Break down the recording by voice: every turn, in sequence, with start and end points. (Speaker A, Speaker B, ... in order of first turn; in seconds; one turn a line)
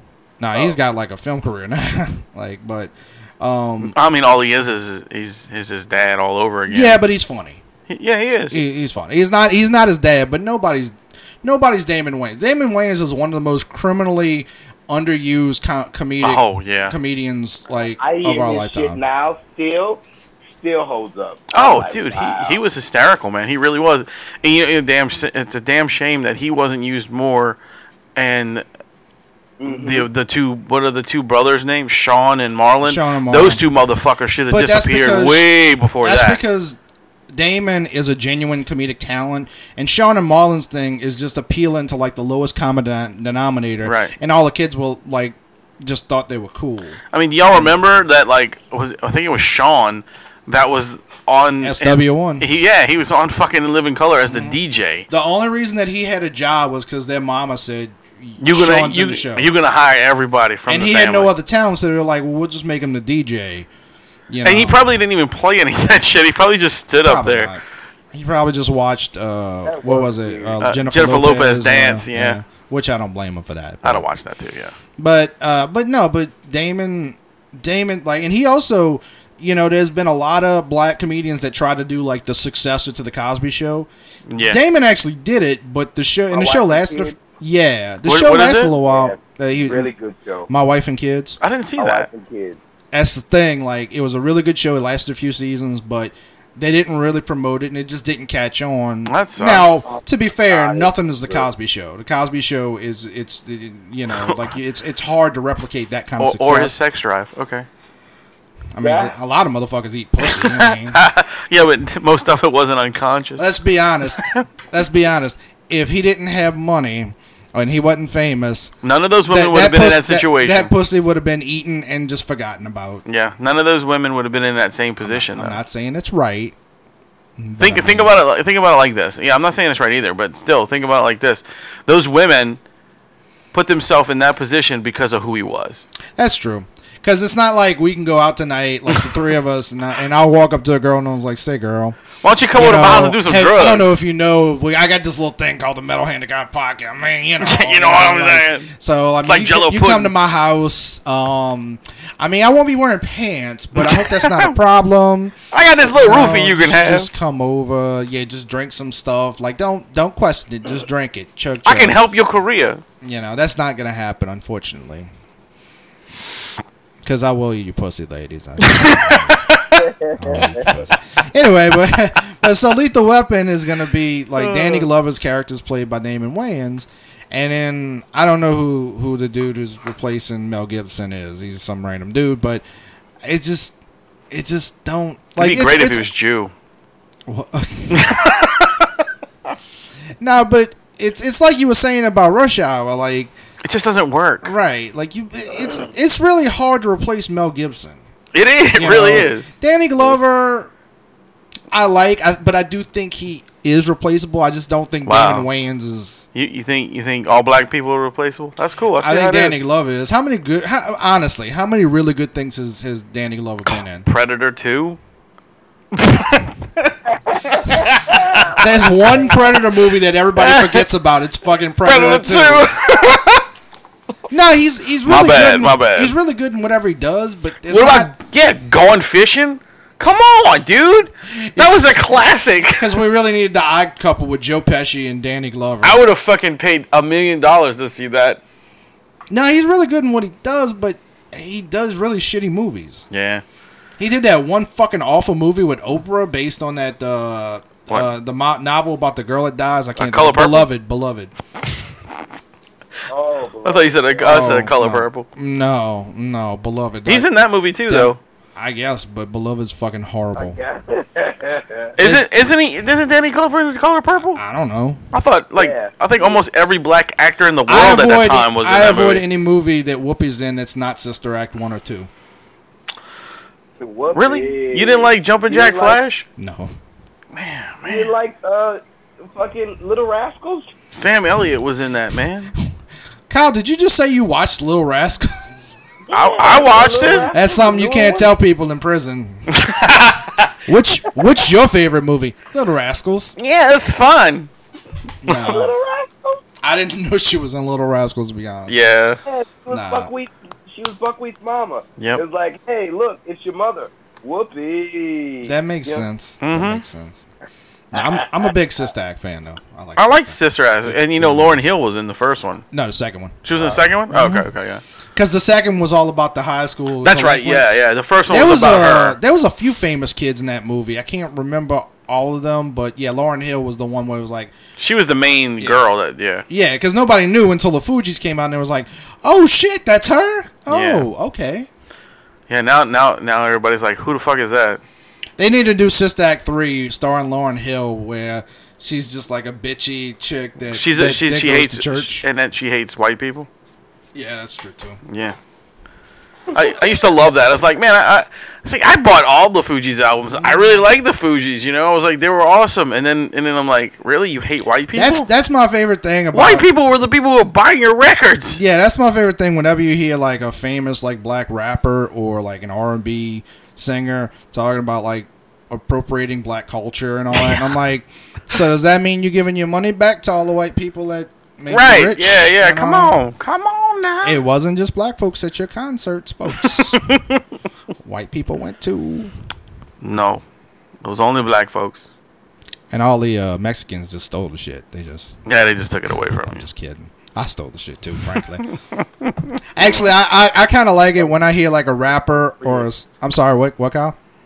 Speaker A: 0.4-3.9
Speaker B: 3.8-7.0
Speaker A: 6.7-7.6
Speaker B: 7.9-8.6
Speaker A: 8.5-19.0
Speaker B: 16.2-16.9
Speaker C: 18.0-20.0
Speaker C: 20.6-22.6
Speaker B: 21.5-27.6
Speaker B: 28.1-28.6
Speaker C: 29.6-30.1
Speaker B: 29.6-36.4
Speaker A: 32.8-33.6
Speaker A: 34.5-35.5
Speaker A: 36.0-36.8
Speaker A: 37.3-47.0
Speaker B: 43.8-44.1
Speaker B: 47.1-55.0
Speaker A: 47.5-47.8
Speaker A: 51.6-52.5
Speaker A: 54.3-59.5
Speaker B: 58.4-61.3
Speaker A: 60.7-63.7
Speaker A: 64.3-65.0
Speaker B: 64.4-67.5
Speaker A: 67.0-74.0
Speaker C: 69.6-70.6
Speaker B: 70.6-72.4
Speaker B: 73.8-74.8
Speaker A: 75.0-83.9
Speaker B: 84.3-84.6
Speaker A: 84.4-89.9
Speaker C: 86.3-87.2
Speaker B: 88.0-88.7
Speaker C: 88.8-90.5
Speaker A: 90.5-91.4
Speaker B: 91.4-92.1
Speaker C: 91.8-92.6
Speaker A: 92.9-106.7
Speaker B: 99.1-99.8
Speaker C: 99.8-101.5
Speaker B: 104.1-104.4
Speaker B: 106.2-107.7
Speaker A: 108.7-111.0
Speaker C: 108.8-109.1
Speaker B: 110.2-113.5
Speaker A: 113.4-118.7
Speaker B: 114.1-114.4
Speaker B: 118.8-120.7
Speaker A: 119.3-123.0
Speaker B: 123.0-125.6
Speaker A: 125.0-126.5
Speaker A: 127.4-128.2
Speaker B: 127.6-132.6
Speaker B: 133.5-135.8
Speaker A: 136.2-142.0
Speaker B: 138.9-139.2
Speaker B: 142.2-144.0
Speaker A: 142.5-155.3
Speaker B: 147.4-148.7
Speaker B: 149.2-150.1
Speaker B: 153.7-154.5
Speaker B: 155.5-157.1
Speaker A: 155.9-162.0
Speaker B: 161.6-162.8
Speaker A: 163.0-165.1
Speaker A: 167.0-169.5
Speaker B: 168.6-169.8
Speaker C: 169.7-170.7
Speaker A: 170.1-182.6
Speaker B: 174.4-174.9
Speaker A: 183.2-183.7
Speaker A: 184.3-186.1
Speaker B: 185.4-186.5
Speaker A: 187.3-188.3
Speaker B: 187.9-188.8
Speaker A: 190.2-193.3
Speaker B: 193.6-194.5
Speaker A: 194.4-198.0
Speaker B: 198.3-199.5
Speaker A: 198.7-200.7
Speaker A: 201.7-206.2
Speaker B: 205.1-205.5
Speaker B: 206.3-209.6
Speaker A: 209.0-214.1
Speaker B: 213.7-215.0
Speaker B: 215.9-216.9
Speaker C: 217.2-218.6
Speaker B: 217.5-218.7
Speaker A: 218.6-222.7
Speaker B: 220.3-220.8
Speaker B: 221.8-223.4
Speaker A: 224.3-228.1
Speaker B: 225.0-226.1
Speaker B: 227.7-233.0
Speaker A: 231.5-232.0
Speaker A: 232.8-236.0
Speaker B: 235.8-238.4
Speaker A: 239.3-243.1
Speaker B: 243.1-243.4
Speaker A: 244.0-251.3
Speaker B: 250.0-250.7
Speaker C: 253.1-254.6
Speaker B: 253.6-255.2
Speaker A: 254.2-257.3
Speaker B: 257.1-258.2
Speaker A: 257.9-260.6
Speaker C: 260.4-261.9
Speaker B: 262.0-264.4
Speaker A: 262.0-262.3
Speaker A: 264.3-265.0
Speaker B: 265.1-269.2
Speaker C: 265.6-266.4
Speaker A: 267.7-272.1
Speaker C: 273.8-276.0
Speaker B: 274.1-276.2
Speaker A: 276.4-276.7
Speaker B: 277.3-278.1
Speaker C: 277.8-280.7
Speaker B: 280.9-282.5
Speaker A: 283.3-285.5
Speaker C: 286.1-288.3
Speaker B: 286.1-287.3
Speaker A: 287.3-289.5
Speaker B: 289.5-290.6
Speaker A: 290.6-293.3
Speaker B: 293.4-294.5
Speaker A: 295.2-295.7
Speaker C: 295.4-296.4
Speaker A: 296.6-298.8
Speaker B: 298.7-299.2
Speaker C: 299.2-306.0
Speaker A: 299.7-300.1
Speaker A: 305.4-307.2
Speaker B: 306.4-306.8
Speaker A: 307.9-311.6
Speaker C: 308.0-308.2
Speaker B: 309.9-312.6
Speaker A: 312.7-314.5
Speaker B: 313.4-314.8
Speaker A: 315.1-324.5
Speaker B: 317.0-319.2
Speaker B: 324.8-326.4
Speaker A: 326.5-331.7
Speaker B: 330.7-331.1
Speaker B: 332.5-334.8
Speaker A: 335.4-342.2
Speaker B: 340.7-343.5
Speaker A: 344.1-345.0
Speaker B: 345.1-345.4
Speaker B: 346.5-355.3
Speaker A: 354.9-356.7
Speaker B: 356.3-358.6
Speaker A: 358.5-373.2
Speaker B: 367.3-367.6
Speaker B: 371.7-374.4
Speaker A: 374.2-377.0
Speaker B: 376.6-377.4
Speaker A: 378.0-379.3
Speaker B: 380.0-380.4
Speaker B: 381.0-382.1
Speaker A: 382.9-385.4
Speaker B: 385.4-386.6
Speaker A: 386.5-388.6
Speaker B: 388.4-389.9
Speaker A: 389.7-394.1
Speaker C: 392.6-392.9